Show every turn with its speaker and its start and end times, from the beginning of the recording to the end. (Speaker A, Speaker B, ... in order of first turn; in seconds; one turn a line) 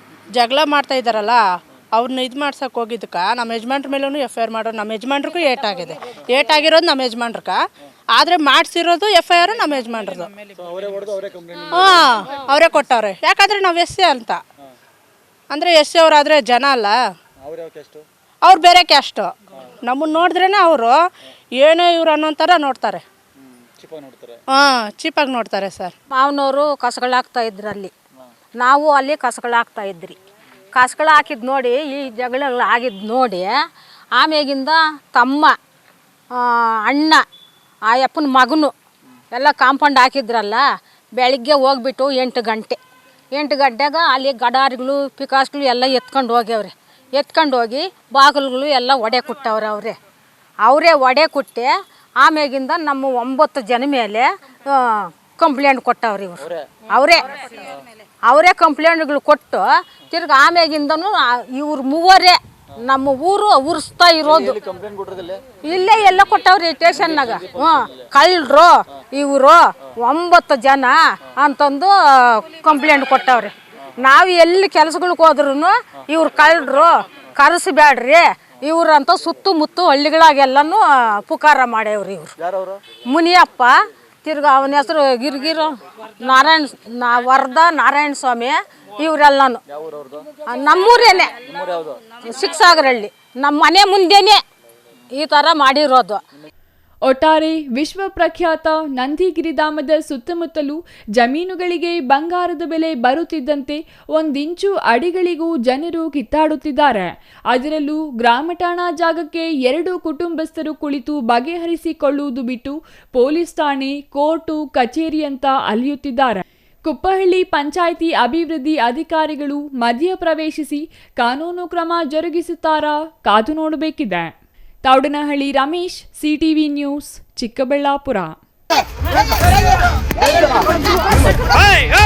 Speaker A: 0.3-10.3
Speaker B: 10.6-12.1
Speaker A: 11.7-14.4
Speaker A: 15.5-17.0
Speaker B: 17.5-18.0
Speaker A: 18.4-23.0
Speaker B: 23.8-24.3
Speaker A: 24.5-25.9
Speaker C: 26.1-27.9
Speaker C: 28.6-30.2
Speaker C: 30.7-33.5
Speaker C: 34.1-35.5
Speaker C: 36.4-37.2
Speaker C: 37.9-38.7
Speaker C: 39.3-40.6
Speaker C: 41.2-42.8
Speaker C: 43.3-50.0
Speaker C: 50.6-57.6
Speaker C: 58.2-64.6
Speaker B: 64.7-65.4
Speaker C: 65.6-82.3
Speaker C: 83.0-89.6
Speaker C: 90.5-91.5
Speaker C: 92.2-94.4
Speaker C: 95.1-96.2
Speaker D: 97.0-124.3
Speaker D: 124.8-128.4